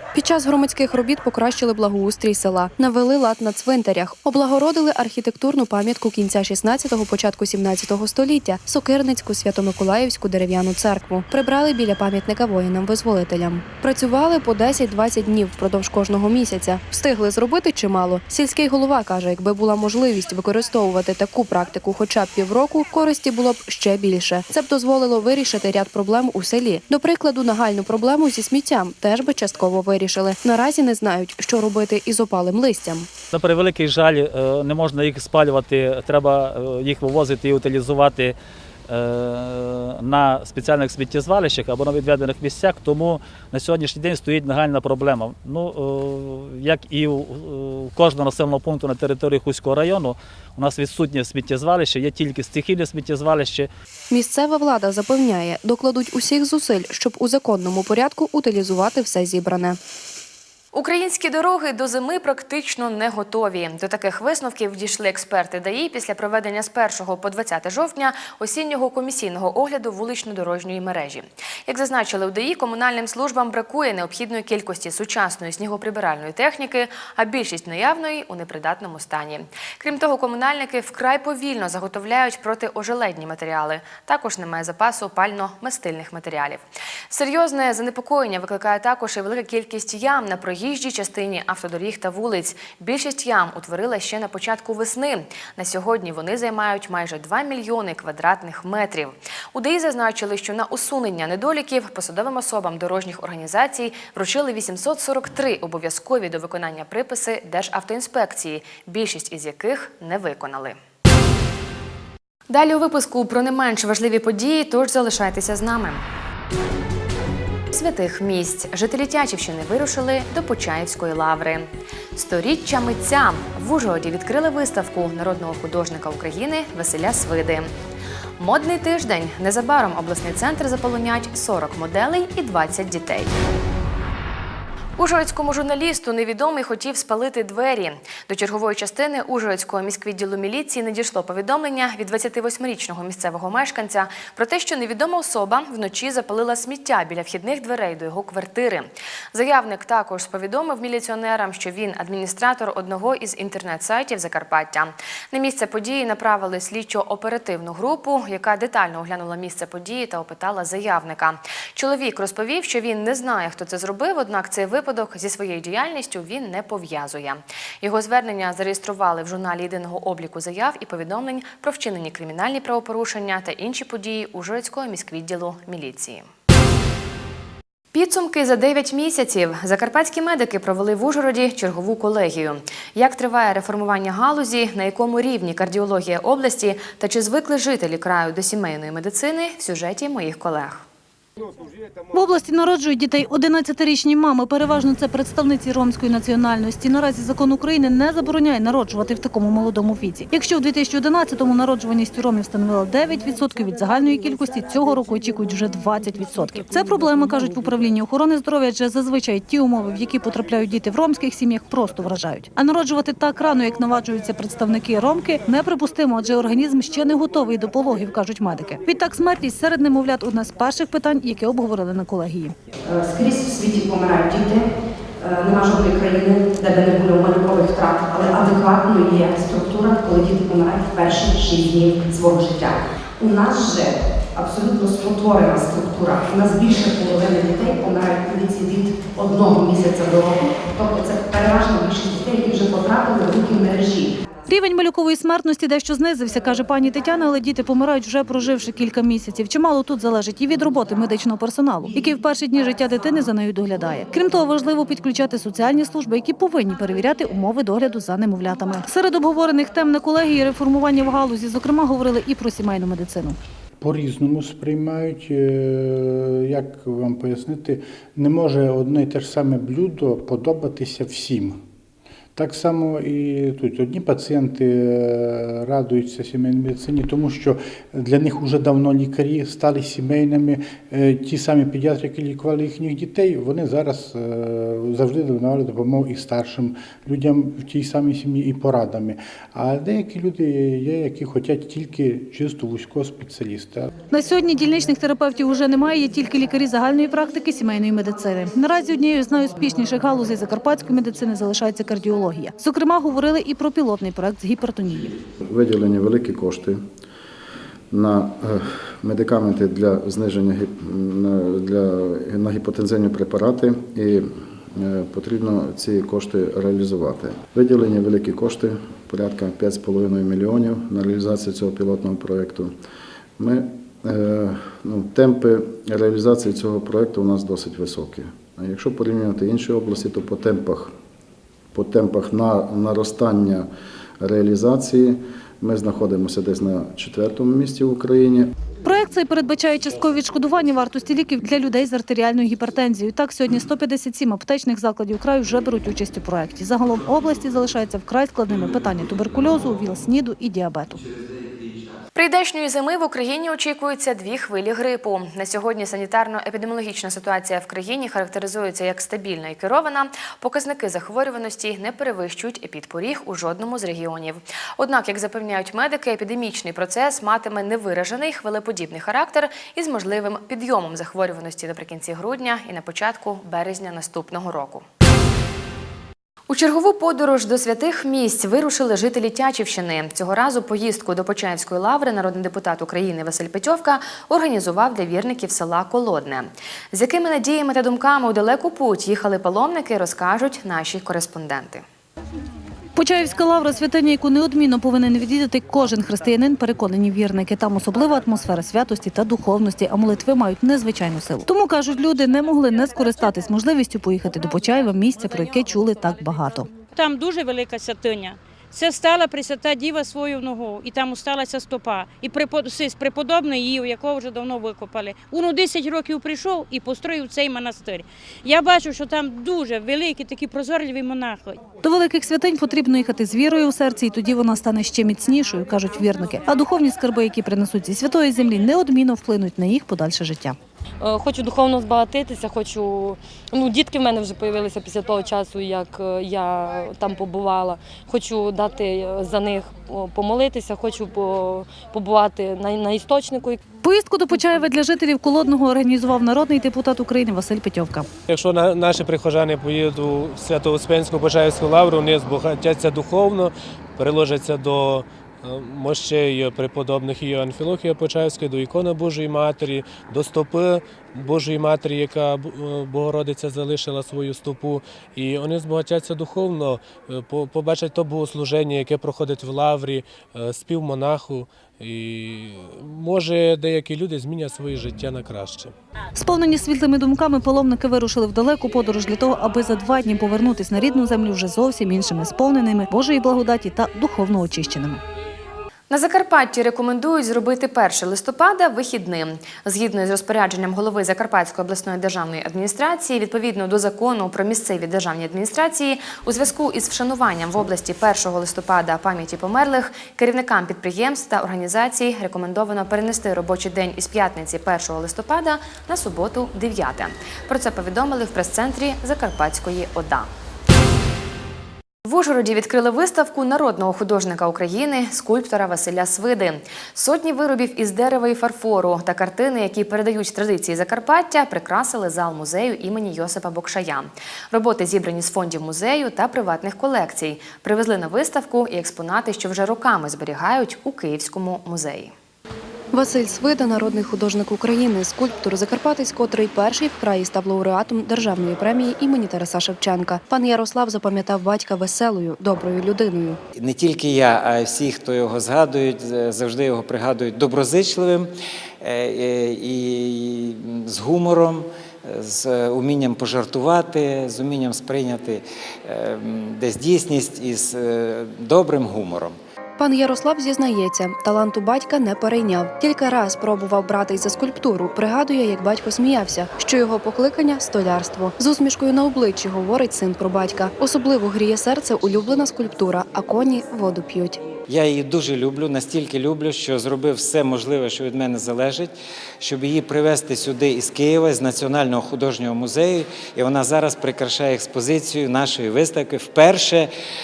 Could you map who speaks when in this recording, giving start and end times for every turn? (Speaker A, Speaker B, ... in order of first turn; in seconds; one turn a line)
Speaker A: 0.1-33.1
Speaker B: 33.3-53.7
Speaker A: 54.1-59.8
Speaker C: 60.7-110.8
Speaker C: 112.5-116.0
Speaker C: 117.7-127.7
Speaker C: 128.4-133.3
Speaker C: 135.0-176.3
Speaker C: 177.9-190.8
Speaker D: 192.1-222.5
Speaker E: 222.8-224.7
Speaker E: 225.2-244.2
Speaker D: 244.5-263.4
Speaker F: 263.8-271.6
Speaker F: 272.4-293.9
Speaker D: 294.1-305.1
Speaker G: 305.4-306.8
Speaker G: 307.9-322.8
Speaker G: 323.4-330.9
Speaker G: 331.7-338.5
Speaker D: 338.9-351.0
Speaker C: 352.1-374.8
Speaker C: 376.5-391.8
Speaker D: 393.0-406.7
Speaker H: 406.9-421.6
Speaker D: 421.8-430.6
Speaker I: 431.0-443.6
Speaker D: 443.8-448.1
Speaker J: 448.3-475.8
Speaker D: 476.2-485.0
Speaker C: 485.9-510.3
Speaker C: 512.0-532.1
Speaker A: 532.9-543.4
Speaker K: 543.5-559.4
Speaker A: 559.8-574.4
Speaker K: 574.7-586.9